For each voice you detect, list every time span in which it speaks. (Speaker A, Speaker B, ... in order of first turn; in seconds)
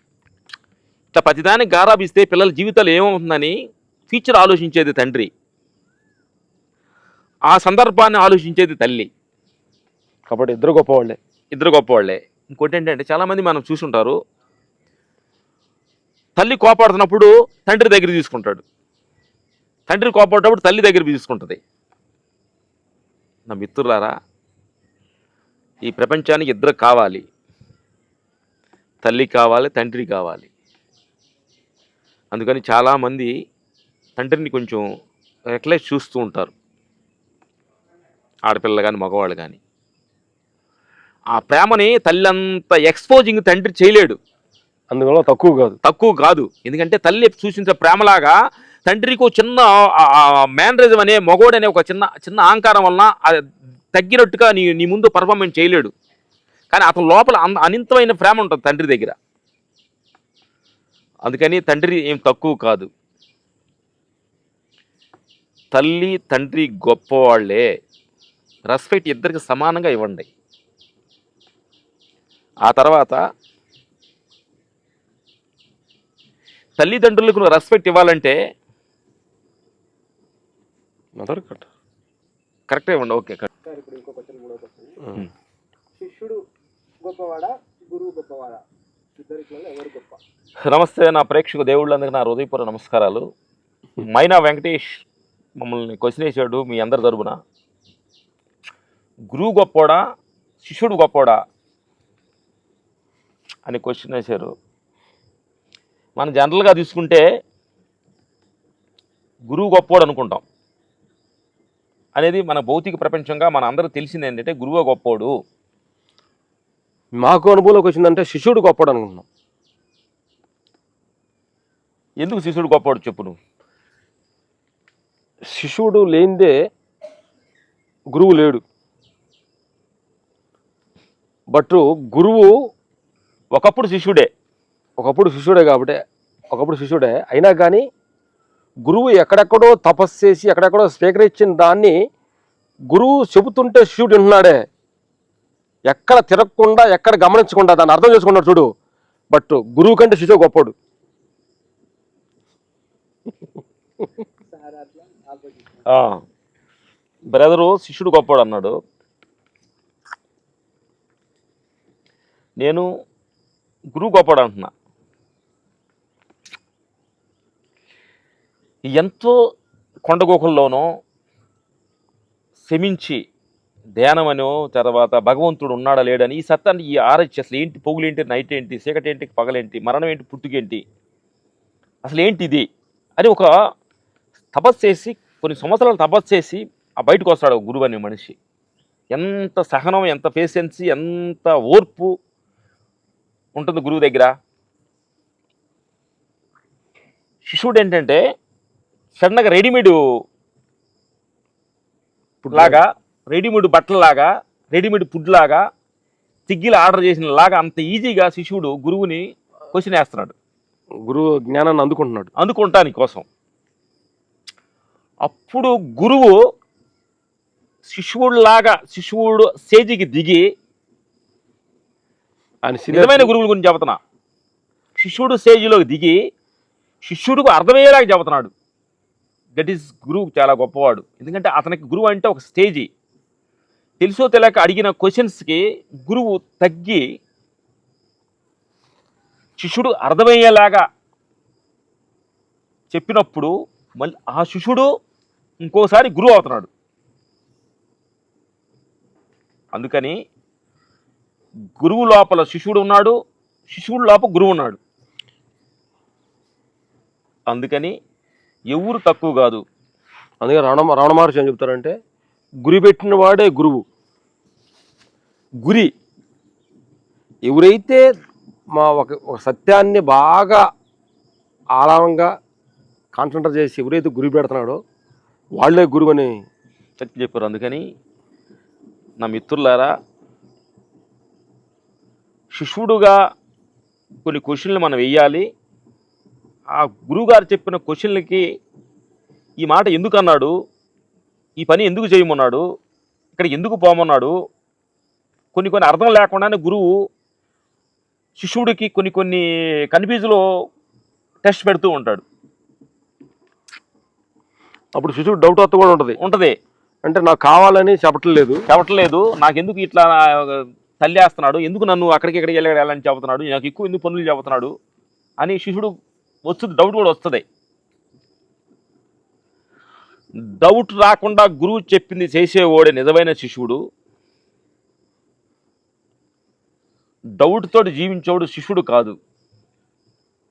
Speaker A: 1.1-3.5, 4.1-5.3, 7.5-9.1, 11.5-14.2, 16.4-18.6, 19.9-21.6, 23.5-24.1, 25.8-27.2, 29.0-30.5, 32.3-33.3, 34.2-34.8, 35.5-36.5, 38.5-39.6, 41.3-44.2, 45.8-48.3, 48.9-53.4, 53.9-55.9, 56.7-59.1, 61.2-62.9, 65.7-67.6, 68.7-70.3, 72.7-73.2, 76.8-78.3, 82.7-83.5, 90.7-93.2, 94.0-95.0, 95.6-97.3, 99.3-100.0, 100.6-101.4, 103.7-104.5, 106.2-107.2, 109.5-110.4, 112.1-115.3, 122.2-123.3, 133.5-134.3, 155.9-156.2, 157.3-158.7, 162.6-162.8, 163.9-164.7, 168.9-169.3, 170.1-170.8, 172.7-173.2, 174.0-180.8, 182.0-182.7, 183.2-183.5, 184.5-188.4, 189.1-192.1, 193.6-194.3, 197.4-198.2, 199.2-200.0, 202.5-205.6, 206.5-209.2, 209.7-210.3, 212.4-213.2, 215.2-216.3, 217.9-220.4, 222.9-224.0, 225.0-226.2, 227.0-228.5, 229.6-232.9, 234.0-237.0, 239.6-240.8, 242.9-244.9, 245.6-246.7, 249.7-250.1, 251.8-253.1, 253.7-254.8, 257.5-257.9, 258.7-259.6, 265.6-265.9, 277.0-277.8, 279.2-279.9, 282.5-283.1, 284.2-285.4, 286.8-288.4, 289.6-290.5, 291.6-292.6, 293.4-294.3, 295.5-296.9, 298.4-300.4, 301.4-302.2, 306.2-306.5, 308.7-314.7, 315.4-315.9, 316.5-317.4, 320.6-323.8, 327.4-329.1
Speaker B: 10.3-11.2, 44.9-45.8, 81.2-81.7, 117.2-119.2, 125.5-126.5, 128.1-128.6, 131.5-132.5, 135.0-136.0, 136.5-137.8, 138.8-141.9, 142.9-144.6, 145.9-148.7, 149.3-150.7, 202.4-202.8, 211.1-212.3, 222.6-223.3, 260.4-261.9, 262.6-263.8, 267.4-268.0, 268.7-270.6, 271.8-272.3, 273.1-274.8, 275.5-276.3, 304.9-306.2, 307.0-308.6
Speaker C: 83.6-85.0, 86.0-86.4, 87.0-88.6, 89.2-90.2, 154.5-155.8